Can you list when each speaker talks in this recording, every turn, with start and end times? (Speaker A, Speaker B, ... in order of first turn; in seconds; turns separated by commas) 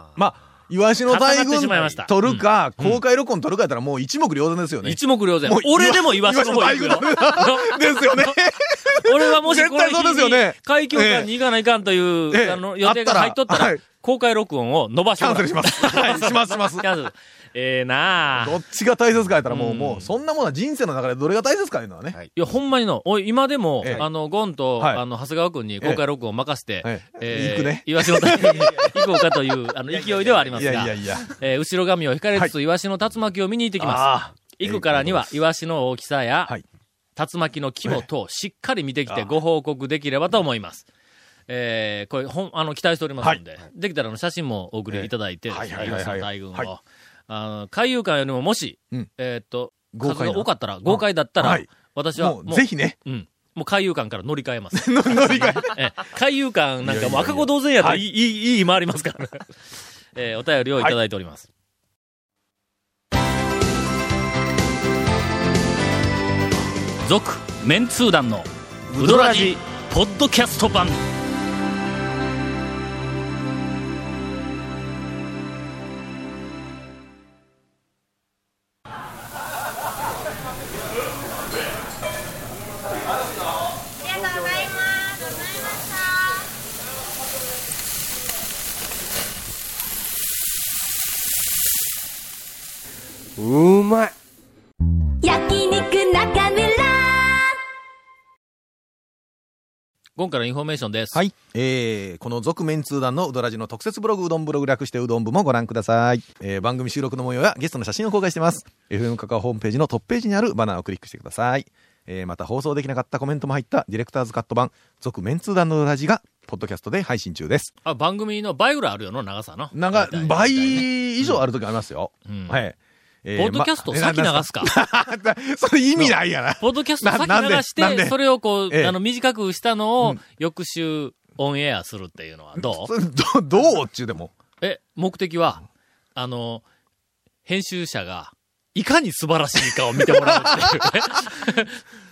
Speaker A: 0.1-11.3, Speaker B: 1.1-3.0, Speaker B: 4.8-8.3, Speaker B: 9.0-18.6, Speaker A: 12.3-13.8, Speaker A: 15.2-16.9, Speaker A: 18.3-22.2, Speaker B: 19.5-20.1, Speaker B: 22.4-36.5, Speaker A: 26.8-28.9, Speaker A: 30.4-31.3, Speaker A: 33.8-35.4, Speaker B: 37.1-40.8, Speaker B: 41.5-59.5, Speaker A: 44.9-46.7, Speaker A: 49.9-53.0, Speaker A: 54.7-55.8, Speaker A: 56.8-58.0, Speaker B: 60.1-61.5, Speaker B: 67.0-71.0, Speaker A: 69.0-69.2, Speaker C: 84.1-86.4, Speaker C: 95.2-97.5, Speaker B: 100.2-101.2, Speaker A: 101.1-117.7, Speaker B: 117.8-121.4, Speaker A: 119.7-129.0, Speaker B: 122.3-122.6, Speaker B: 123.3-124.7, Speaker B: 126.0-132.9, Speaker A: 132.6-134.3, Speaker B: 134.6-135.6, Speaker B: 136.1-136.6, Speaker B: 137.4-141.8, Speaker A: 139.9-140.9